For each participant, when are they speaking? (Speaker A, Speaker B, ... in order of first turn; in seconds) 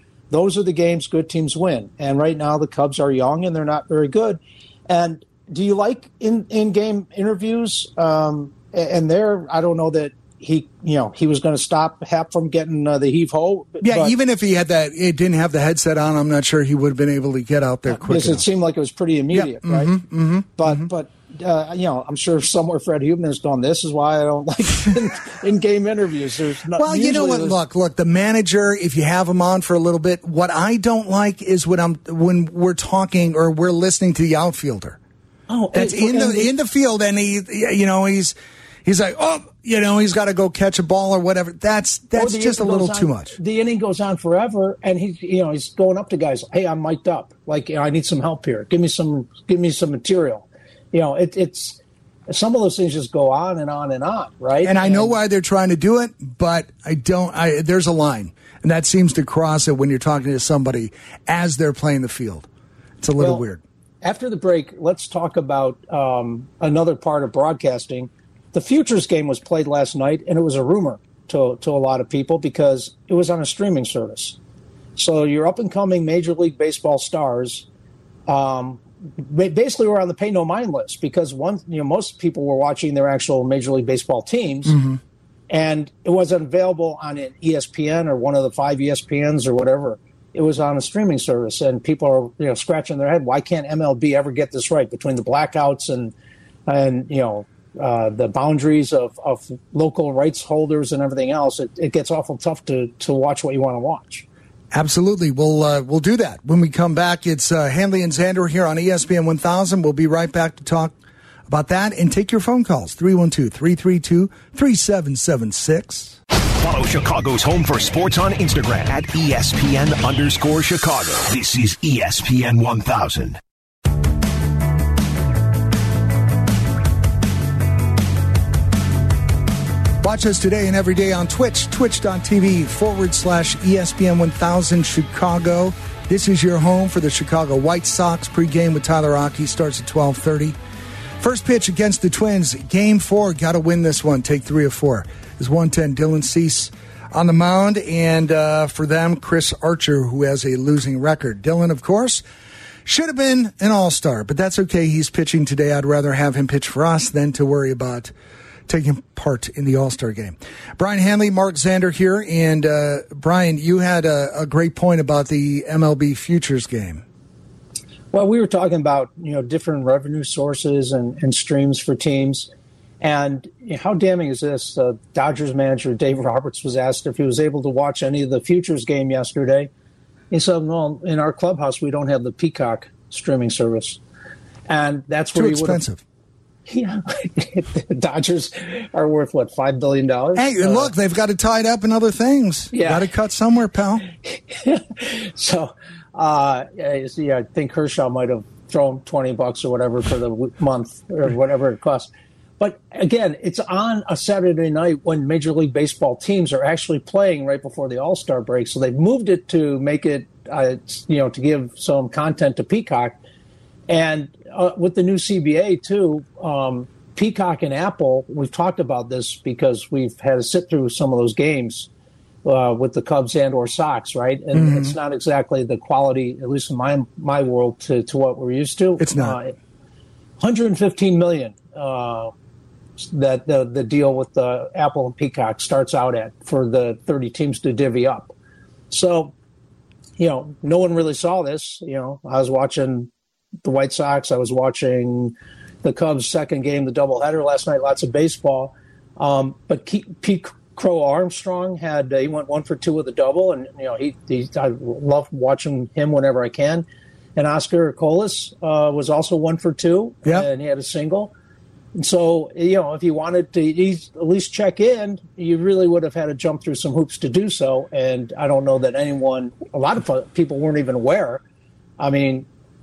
Speaker A: 0.3-14.2, 17.9-20.0, 20.6-27.6, 35.5-36.5, 42.2-55.2, 63.2-63.4, 64.0-74.4, 75.0-77.7, 78.3-84.8, 85.5-96.1, 96.7-104.2, 168.1-172.5, 173.0-179.7, 180.3-184.0, 184.7-185.8, 186.7-190.9, 192.7-193.1, 194.2-213.2, 213.9-221.9, 222.4-229.5, 230.4-232.3, 233.0-238.3, 238.9-239.3, 240.2-243.1, 243.6-261.3, 261.9-271.4, 272.0-272.5
Speaker B: 13.8-18.4, 19.3-20.9, 26.8-35.0, 35.7-43.4, 54.6-62.5, 63.0-63.6, 84.7-85.0, 104.7-111.0, 111.5-116.2, 130.0-140.6, 141.2-152.2, 152.9-158.1, 158.7-167.0, 185.3-186.0, 190.3-194.1, 224.5-225.0, 229.0-229.4
Speaker C: 116.6-123.4